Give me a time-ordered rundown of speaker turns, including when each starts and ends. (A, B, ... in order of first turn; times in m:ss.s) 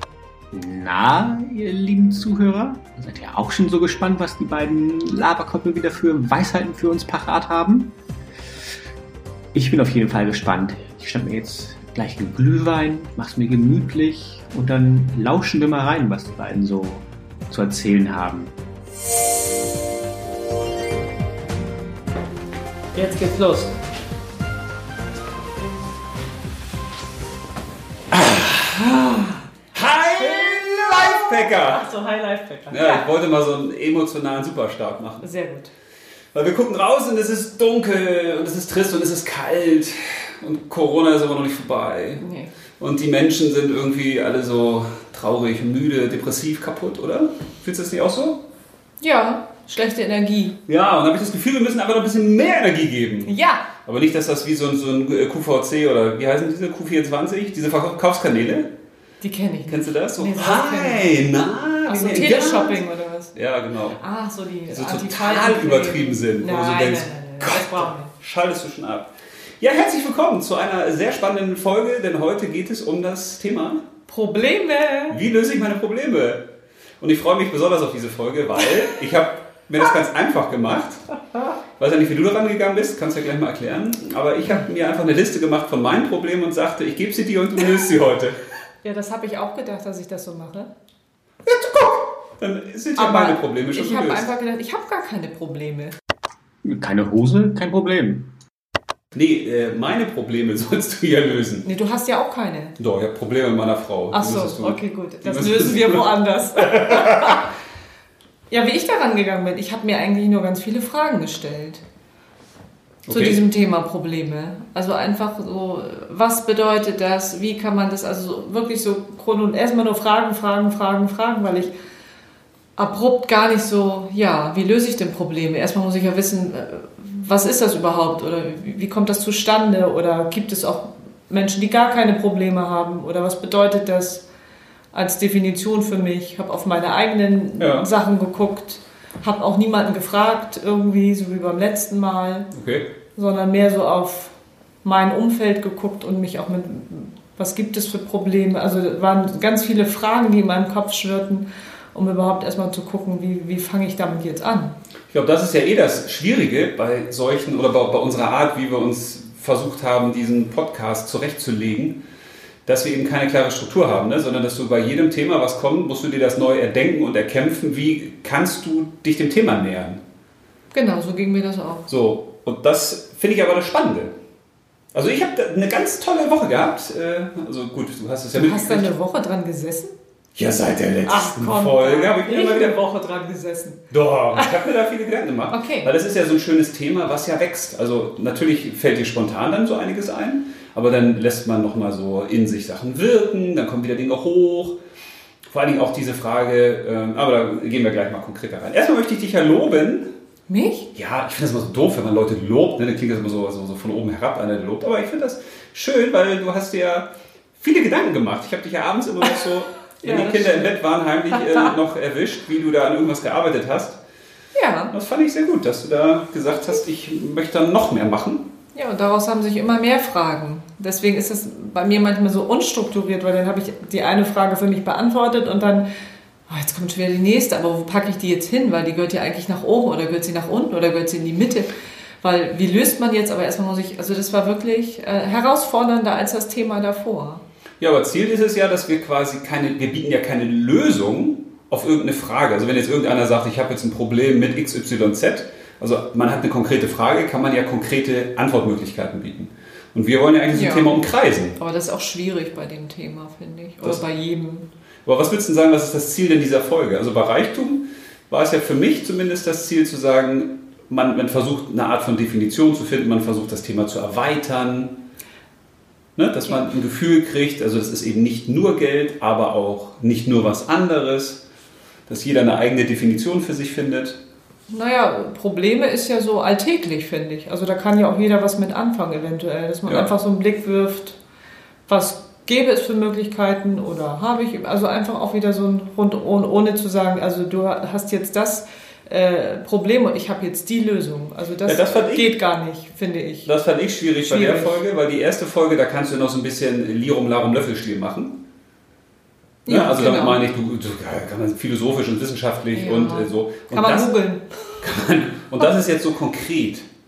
0:00.5-0:07.9 A
0:09.5-0:18.5 A
0:22.9-0:23.7 B
0:28.1-0:31.8 C
0:30.3-0:33.1 B
0:32.7-0:35.3 C
0:35.2-0:35.7 B
0:36.3-0:42.2 C
0:42.2-0:42.5 B
0:42.8-0:48.4 C
0:49.0-0:50.6 B
0:50.7-0:58.7 C
0:53.2-0:53.7 B
0:59.2-1:01.2 B
0:59.7-1:02.8 C
1:01.8-1:03.3 B
1:03.3-1:04.0 C
1:04.0-1:08.1 B
1:04.7-1:13.8 C
1:14.1-1:15.2 B
1:15.1-1:16.5 C
1:17.0-1:21.0 C
1:21.8-1:28.4 C
1:28.8-1:30.7 B
1:31.4-1:34.3 C
1:33.0-1:35.9 B
1:36.6-1:38.3 A
1:39.1-1:41.6 C
1:41.6-1:42.8 B
1:42.8-1:47.5 C
1:44.1-1:47.4 B
1:48.5-1:51.8 B
1:53.0-1:53.4 C
1:53.1-2:01.7 B
2:02.8-2:14.2 B
2:14.9-2:22.5 B
2:17.6-2:17.9 C
2:22.5-2:22.9 C
2:23.2-2:34.7 B
2:35.1-2:42.0 C
2:42.6-2:50.0 C
2:50.7-2:51.9 B
2:51.9-2:54.1 C
2:54.9-2:58.9 C
2:58.3-2:59.9 B
3:00.4-3:02.8 C
3:01.0-3:04.6 B
3:03.9-3:14.8 C
3:05.5-3:05.9 B
3:15.4-3:20.1 C
3:20.5-3:20.9 B
3:20.9-3:34.0 C
3:30.0-3:31.7 B
3:34.5-3:34.9 B
3:34.9-3:38.5 C
3:38.7-3:45.9 B
3:46.5-3:57.4 B
3:57.8-4:11.6 C
4:10.5-4:11.0 B
4:11.6-4:14.7 B
4:15.0-4:25.0 C
4:26.2-4:31.4 C
4:32.1-4:34.2 C
4:34.7-4:41.2 B
4:41.9-4:53.5 B
4:51.6-4:52.3 C
4:53.4-4:58.4 C
4:54.2-4:54.8 B
4:59.6-5:04.1 C
4:59.7-5:00.4 B
5:02.7-5:04.8 B
5:04.8-5:06.9 C